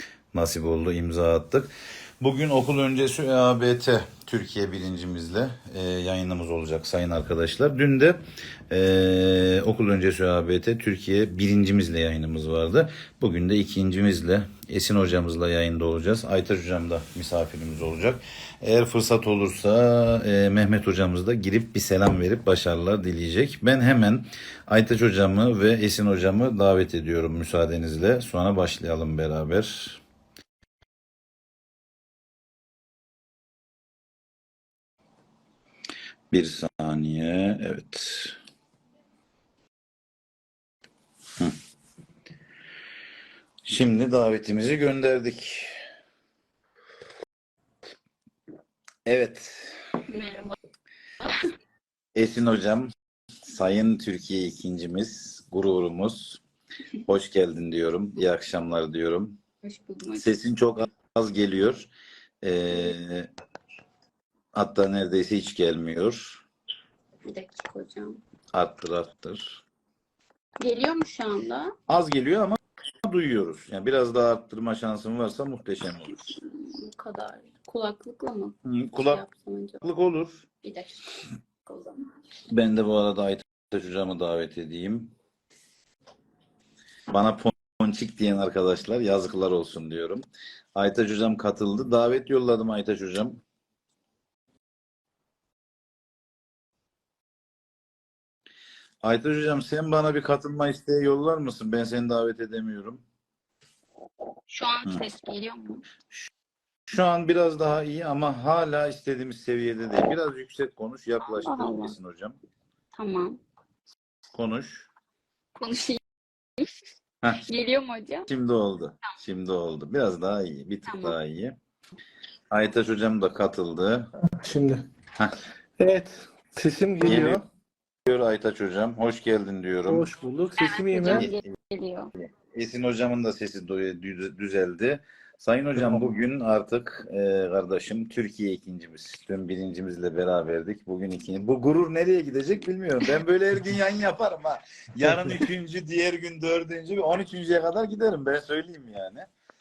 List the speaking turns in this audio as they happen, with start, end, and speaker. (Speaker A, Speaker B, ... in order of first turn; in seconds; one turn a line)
Speaker A: 0.3-30.0
Speaker A: 36.3-38.4
Speaker A: 43.7-45.7
Speaker A: 49.1-49.8
Speaker B: 50.1-50.6
Speaker A: 52.1-52.9
Speaker A: 53.5-56.4
Speaker A: 57.1-59.4
Speaker B: 59.6-60.3
Speaker A: 60.1-61.9
Speaker A: 62.4-63.3
Speaker A: 64.5-66.4
Speaker B: 67.2-68.2
Speaker A: 68.5-69.6
Speaker B: 70.6-71.8
Speaker A: 71.9-76.3
Speaker B: 76.1-79.8
Speaker A: 78.7-79.2
Speaker A: 79.8-80.5
Speaker B: 80.6-81.0
Speaker B: 81.7-82.0
Speaker A: 82.5-85.1
Speaker A: 87.1-90.2
Speaker A: 90.8-93.4
Speaker A: 99.0-103.0
Speaker B: 104.5-105.8
Speaker A: 106.9-112.4
Speaker B: 111.2-112.0
Speaker B: 112.9-113.4
Speaker A: 114.3-114.9
Speaker B: 115.6-116.0
Speaker B: 116.6-116.9
Speaker B: 117.5-118.3
Speaker A: 118.3-121.6
Speaker B: 120.9-121.2
Speaker A: 122.5-124.1
Speaker C: 124.2-124.8
Speaker C: 125.8-127.4
Speaker A: 127.0-127.4
Speaker A: 128.1-130.1
Speaker C: 129.9-131.3
Speaker B: 130.6-132.1
Speaker A: 131.1-131.4
Speaker A: 132.2-149.3
Speaker C: 135.8-136.1
Speaker C: 145.1-145.3